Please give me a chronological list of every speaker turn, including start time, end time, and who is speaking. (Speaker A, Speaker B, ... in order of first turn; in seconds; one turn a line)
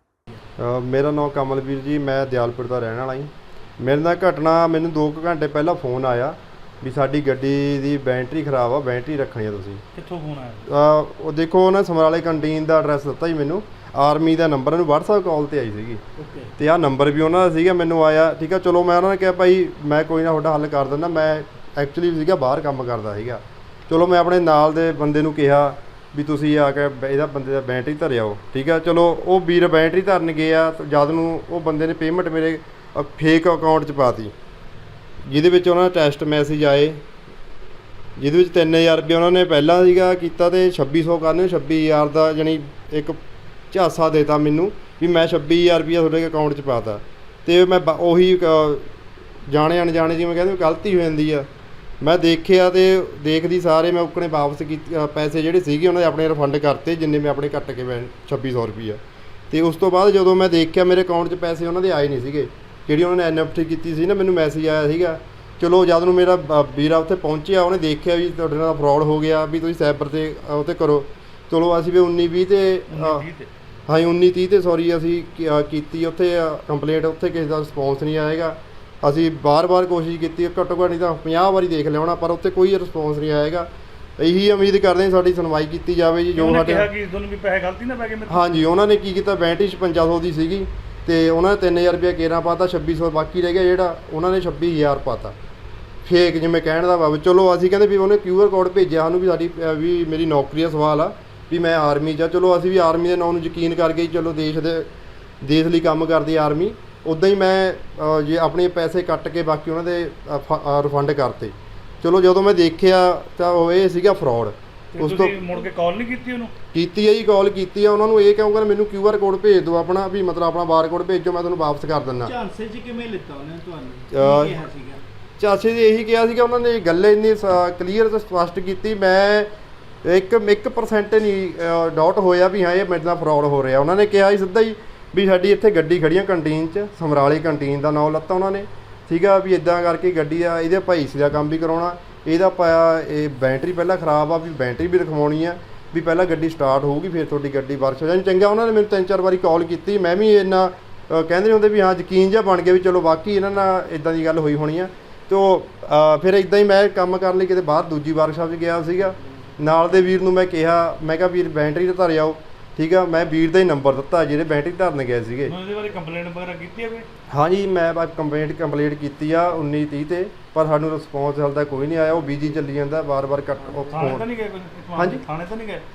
Speaker A: 0.6-9.8
Speaker B: 9.9-10.7
Speaker A: 10.7-16.0
Speaker C: 16.2-16.5
Speaker A: 16.6-34.3
Speaker A: 35.3-37.0
Speaker A: 38.2-43.2
Speaker A: 43.7-48.9
Speaker A: 49.5-51.5
Speaker A: 52.0-59.0
Speaker A: 59.5-73.2
Speaker B: 72.9-73.5
Speaker A: 73.9-86.9
Speaker B: 86.4-88.5
Speaker A: 88.3-95.3
Speaker A: 96.0-104.9
Speaker A: 105.4-115.4
Speaker B: 115.0-116.5
Speaker A: 116.7-122.3
Speaker C: 122.2-125.0
Speaker A: 124.1-124.6
Speaker A: 125.4-129.5
Speaker A: 130.0-165.6
Speaker B: 165.5-167.1
Speaker A: 167.3-174.3
Speaker B: 173.9-175.8
Speaker A: 175.0-175.2